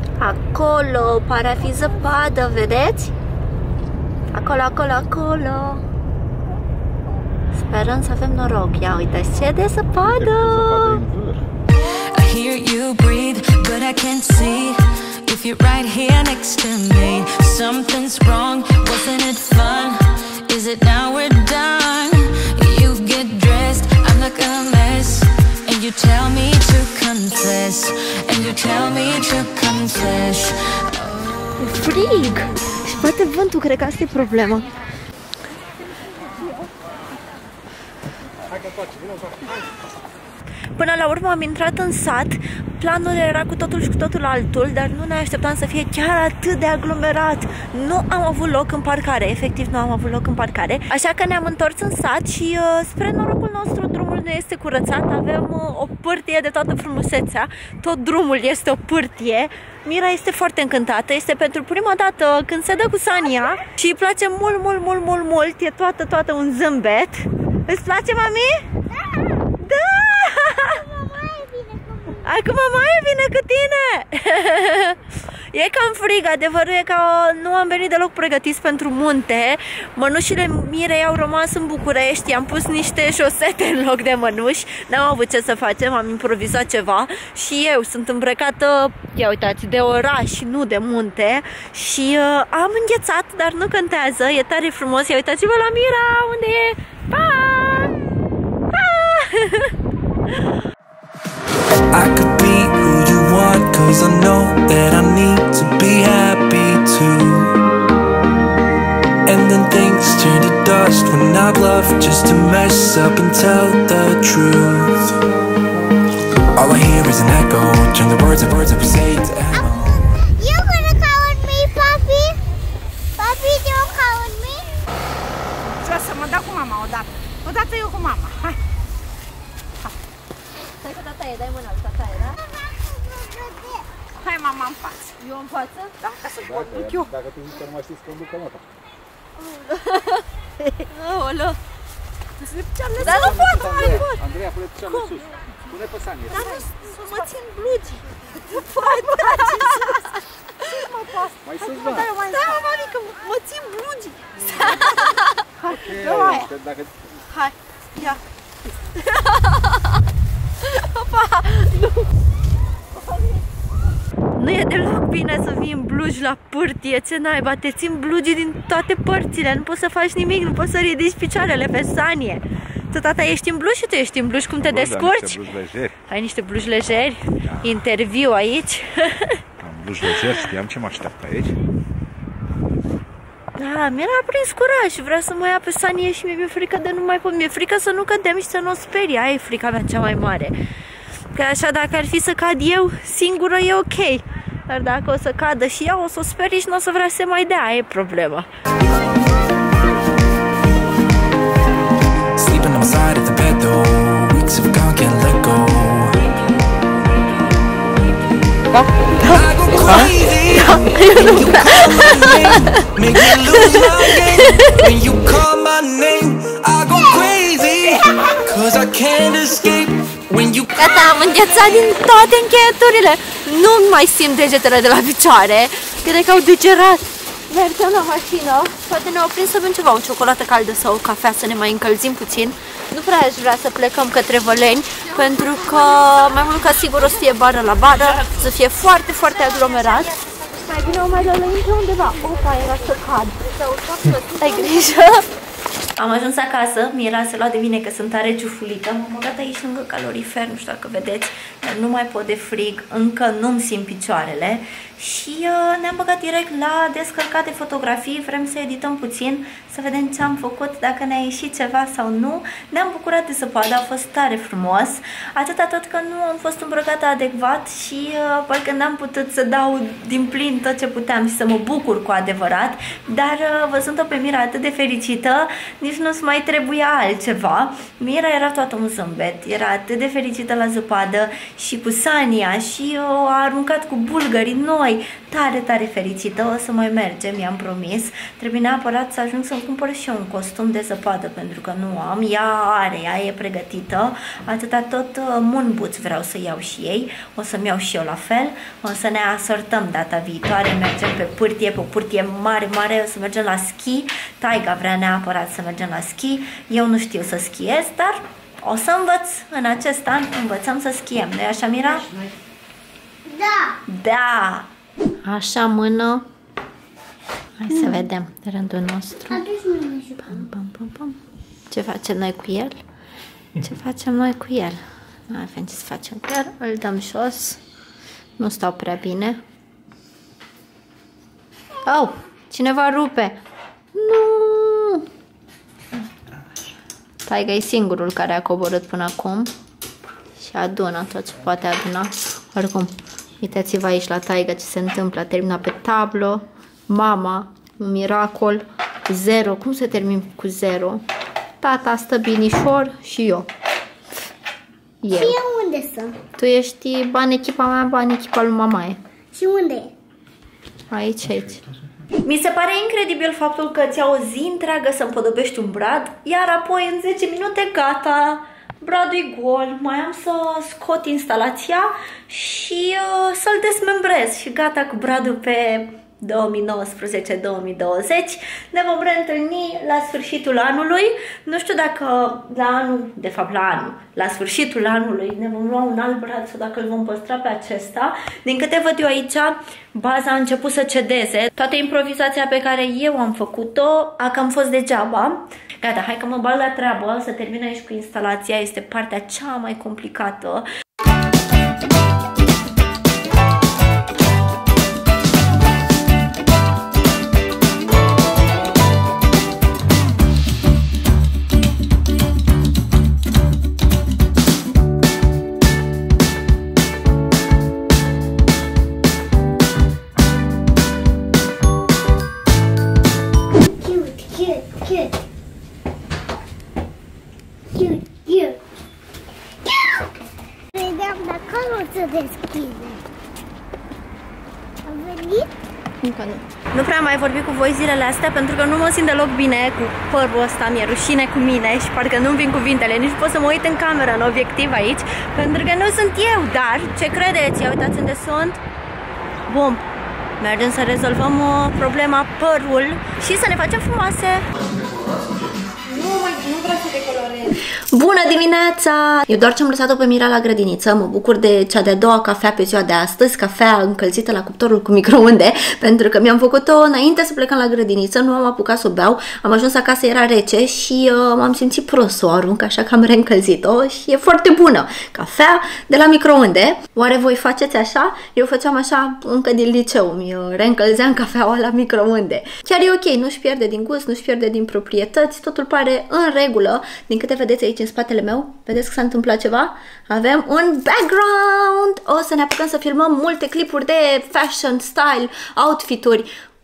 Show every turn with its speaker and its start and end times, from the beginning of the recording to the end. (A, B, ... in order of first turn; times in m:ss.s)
0:00.2-0:03.1 A
0:04.3-0:05.8 A
0:07.5-0:11.0 A
0:10.0-0:11.4 B
0:12.1-0:31.4 C
0:31.6-0:34.7 A
0:38.4-0:39.6 B
0:40.8-1:08.6 A
1:09.0-1:09.3 D
1:09.6-1:10.8 A
1:10.6-1:12.3 D
1:12.2-1:15.0 A
1:15.5-1:38.0 A
1:38.7-1:39.7 A
1:41.9-1:47.6 E
1:49.2-1:55.1 E
1:56.5-2:00.0 E
1:59.5-2:02.4 D
2:03.2-2:04.7 D
2:05.6-2:08.6 F
2:10.8-2:12.3 A
2:12.3-2:13.9 D
2:14.2-2:15.4 F
2:15.3-2:15.9 A
2:16.0-2:17.1 F
2:16.4-2:18.6 B
2:20.9-2:21.3 A
2:21.0-2:21.6 F
2:22.4-2:24.2 F
2:23.0-2:26.5 B
2:23.1-2:24.0 A
2:24.8-2:25.3 F
2:26.3-2:30.1 F
2:26.9-2:27.4 A
2:28.7-2:30.0 A
2:30.8-2:32.7 F
2:31.4-2:32.2 B
2:32.3-2:35.0 A
2:34.4-2:34.9 B
2:34.4-2:36.5 F
2:35.6-2:37.0 B
2:37.3-2:38.2 A
2:39.1-2:39.5 A
2:40.7-2:41.9 A
2:44.4-2:55.4 A
2:54.7-2:56.0 B
2:56.1-2:59.3 A
2:57.4-2:57.8 B
2:59.6-3:01.6 B
3:00.0-3:00.4 A
3:03.6-3:10.6 A
3:11.3-3:18.5 A
3:22.4-3:26.2 E
3:29.2-3:40.8 E
3:29.3-3:34.7 A
3:40.8-4:05.3 A
4:03.7-4:04.7 F
4:06.0-5:12.1 A
5:13.3-5:13.8 D
5:13.9-5:14.7 A
5:15.2-5:16.2 A
5:17.6-5:19.4 A
5:19.3-5:20.4 D
5:20.2-5:21.2 A
5:21.7-5:22.8 A
5:23.6-5:27.6 A
5:28.4-5:29.4 A
5:31.8-5:33.4 A
5:33.9-5:35.1 A
5:37.2-5:39.5 A
5:40.4-5:51.0 A
5:51.6-5:53.5 A
5:55.0-5:55.4 A
5:55.1-5:56.2 D
5:56.4-5:59.0 A
5:59.3-5:59.9 D
6:00.9-6:01.6 A
6:02.2-6:40.6 A
7:03.6-7:05.2 D
7:07.7-7:08.6 D
7:09.7-7:10.1 D
7:10.7-7:13.0 D
7:14.8-7:15.5 D
7:16.0-7:28.6 A
7:29.5-7:29.8 A
7:30.4-7:34.5 A
7:35.8-8:16.3 A